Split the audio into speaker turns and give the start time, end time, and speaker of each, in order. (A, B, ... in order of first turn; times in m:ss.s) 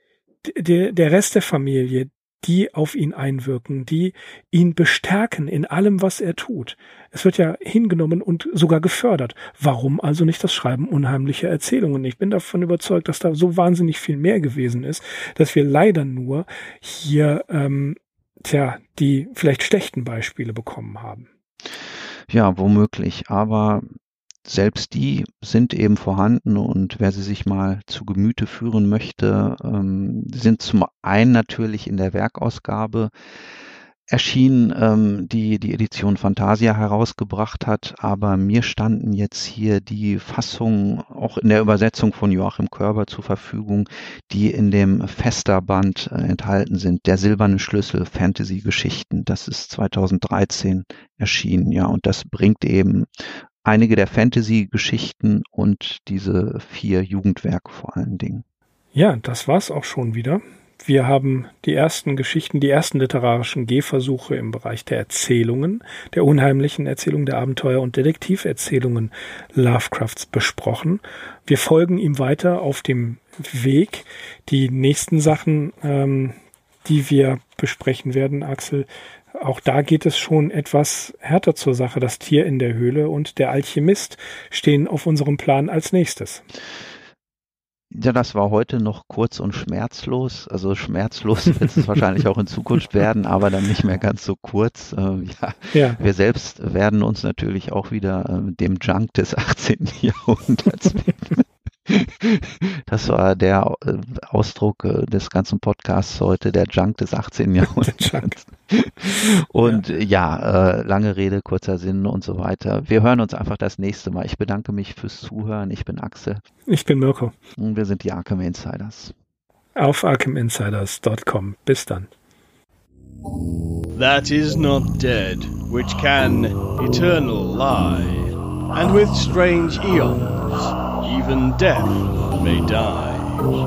0:00.4-0:21.3 A
0:22.3-0:23.8 B
0:24.4-0:33.1 B
0:34.1-0:53.1 B
0:53.6-0:58.4 B
0:58.9-1:18.9 A
1:19.4-1:26.4 A
1:27.9-1:56.4 B
1:35.7-1:36.0 A
1:47.8-1:48.4 A
1:56.7-1:57.3 A
1:57.6-1:59.1 B
1:59.8-2:02.1 A
2:03.9-2:13.4 C